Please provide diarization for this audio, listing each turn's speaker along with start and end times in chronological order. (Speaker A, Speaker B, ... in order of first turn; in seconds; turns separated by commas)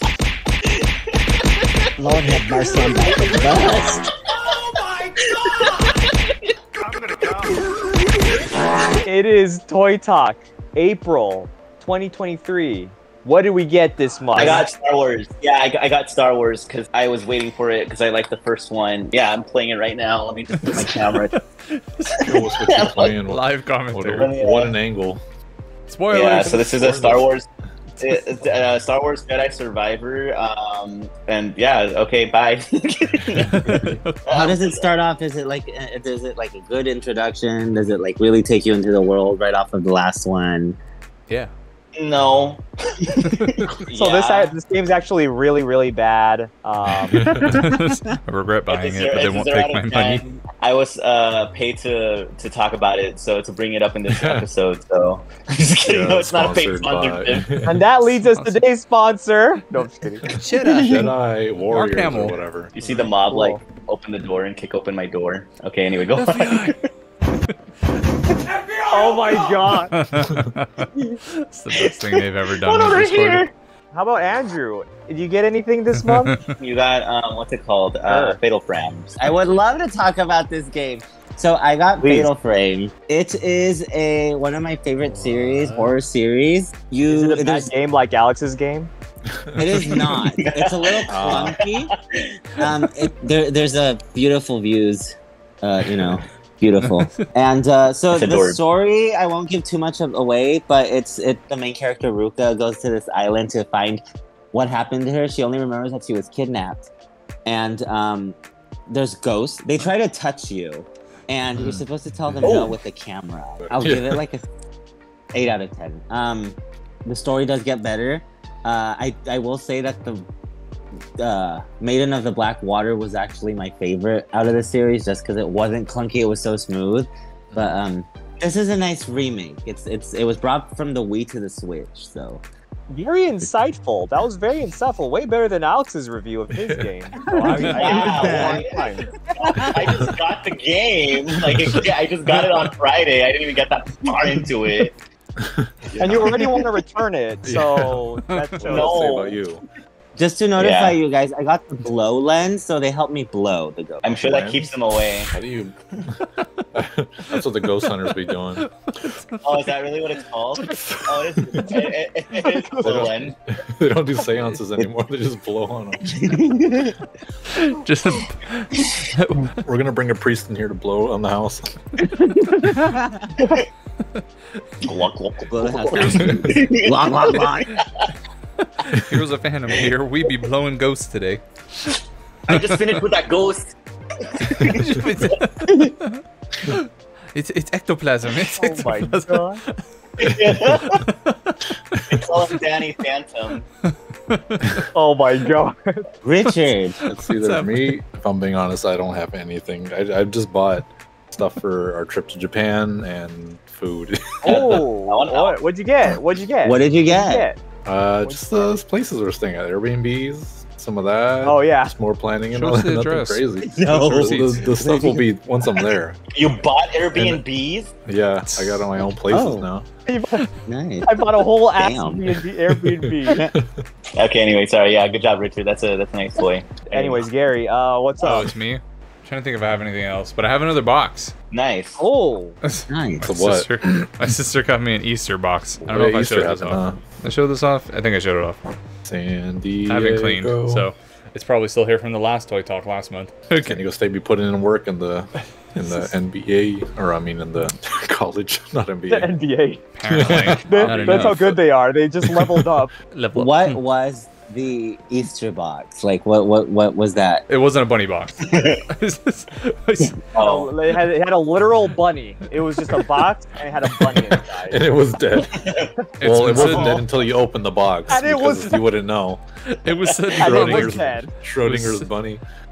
Speaker A: 2.0-4.1, Speaker B: 3.0-4.6, Speaker B: 5.2-6.8, Speaker C: 8.9-14.7, Speaker B: 14.3-21.4, Speaker D: 20.6-22.4, Speaker E: 22.2-25.2, Speaker B: 22.4-23.2, Speaker D: 23.3-24.3, Speaker B: 24.1-24.8, Speaker D: 25.9-26.7, Speaker B: 26.1-27.5, Speaker E: 26.5-27.3, Speaker D: 28.0-28.3, Speaker B: 28.0-34.9, Speaker D: 33.5-34.2, Speaker A: 34.3-40.8, Speaker D: 41.3-41.5, Speaker B: 42.0-44.5, Speaker D: 43.3-43.6, Speaker C: 43.9-47.3, Speaker E: 47.1-47.7, Speaker D: 47.5-50.2, Speaker B: 48.7-57.5, Speaker E: 54.1-54.5, Speaker E: 55.8-57.9, Speaker C: 57.6-61.1, Speaker D: 58.2-58.6, Speaker D: 60.2-61.1, Speaker E: 60.3-62.8, Speaker D: 61.7-62.4, Speaker B: 62.7-66.8, Speaker C: 63.2-63.6, Speaker D: 66.2-66.8, Speaker B: 68.6-69.5, Speaker C: 68.9-69.9, Speaker D: 69.9-73.5, Speaker B: 71.7-73.5, Speaker C: 73.9-76.4, Speaker D: 76.0-76.5, Speaker B: 76.6-79.3, Speaker C: 78.0-78.4, Speaker A: 79.2-87.7, Speaker B: 82.0-82.3, Speaker D: 85.1-85.9, Speaker C: 87.1-88.9, Speaker E: 89.3-90.1, Speaker A: 89.6-91.9, Speaker B: 90.0-92.7, Speaker E: 91.1-91.6, Speaker A: 92.6-104.0, Speaker D: 96.8-97.2, Speaker B: 98.1-98.6, Speaker A: 104.5-106.9, Speaker A: 107.5-108.4, Speaker A: 108.9-114.4, Speaker E: 111.5-112.7, Speaker B: 112.4-112.8, Speaker E: 113.6-114.2, Speaker A: 115.3-120.3, Speaker A: 121.2-132.4, Speaker E: 127.5-127.8, Speaker C: 132.9-139.7, Speaker E: 136.6-136.9, Speaker A: 137.4-138.6, Speaker D: 137.4-138.6, Speaker B: 137.7-144.9, Speaker E: 141.6-141.8, Speaker E: 145.4-146.7, Speaker C: 146.0-149.1, Speaker E: 147.4-148.1, Speaker D: 148.3-148.6, Speaker E: 148.6-149.6, Speaker B: 148.7-149.4, Speaker A: 150.2-154.0, Speaker B: 150.6-151.0, Speaker B: 154.0-155.4, Speaker E: 154.2-154.7, Speaker E: 155.2-158.7, Speaker D: 157.3-159.8, Speaker B: 159.4-163.4, Speaker E: 160.7-161.8, Speaker C: 162.4-163.1, Speaker E: 162.8-166.2, Speaker D: 167.5-169.6, Speaker E: 169.6-171.7, Speaker C: 172.4-172.8, Speaker A: 172.8-173.3, Speaker B: 174.8-178.1, Speaker A: 175.4-177.8, Speaker D: 175.9-176.7, Speaker E: 176.2-176.4, Speaker D: 178.6-182.0, Speaker B: 182.5-185.4, Speaker D: 182.5-183.0, Speaker E: 184.6-184.8, Speaker D: 184.6-189.8, Speaker C: 188.4-189.6, Speaker B: 190.2-191.0, Speaker E: 190.2-190.8, Speaker D: 190.9-191.6, Speaker E: 191.9-192.3, Speaker B: 192.1-193.6, Speaker D: 193.9-194.7, Speaker C: 194.9-196.1, Speaker A: 196.2-197.0, Speaker D: 196.4-198.0, Speaker E: 197.1-204.8, Speaker C: 204.4-207.6, Speaker B: 204.4-205.6, Speaker A: 206.6-207.5, Speaker E: 207.8-216.2, Speaker C: 208.2-208.8, Speaker C: 211.4-211.9, Speaker D: 212.5-214.7, Speaker B: 213.7-214.3, Speaker A: 214.8-215.3, Speaker B: 216.3-217.9, Speaker E: 217.1-217.4, Speaker E: 218.1-219.9, Speaker D: 218.4-218.9, Speaker A: 219.3-219.7, Speaker C: 220.1-220.4, Speaker A: 220.7-222.3, Speaker C: 221.1-223.4, Speaker E: 222.7-223.9, Speaker A: 223.3-223.5, Speaker B: 224.1-227.2, Speaker C: 226.9-228.5, Speaker D: 228.2-231.3, Speaker B: 231.5-232.0, Speaker C: 232.0-232.6, Speaker D: 232.6-238.6, Speaker A: 232.9-233.2, Speaker E: 233.2-233.7, Speaker E: 235.8-237.1, Speaker E: 239.1-240.9, Speaker D: 239.9-243.8, Speaker E: 243.6-249.3, Speaker C: 249.1-252.9, Speaker D: 249.9-251.4, Speaker E: 250.1-251.6, Speaker E: 252.2-252.7, Speaker D: 253.1-253.8, Speaker A: 253.3-257.4, Speaker D: 257.5-260.2, Speaker B: 258.5-258.8, Speaker B: 260.4-260.7, Speaker C: 260.4-264.8, Speaker E: 263.9-269.4, Speaker B: 265.6-265.9, Speaker D: 266.2-267.1, Speaker C: 268.1-268.8, Speaker D: 269.7-272.1, Speaker C: 270.4-271.3, Speaker E: 270.4-272.4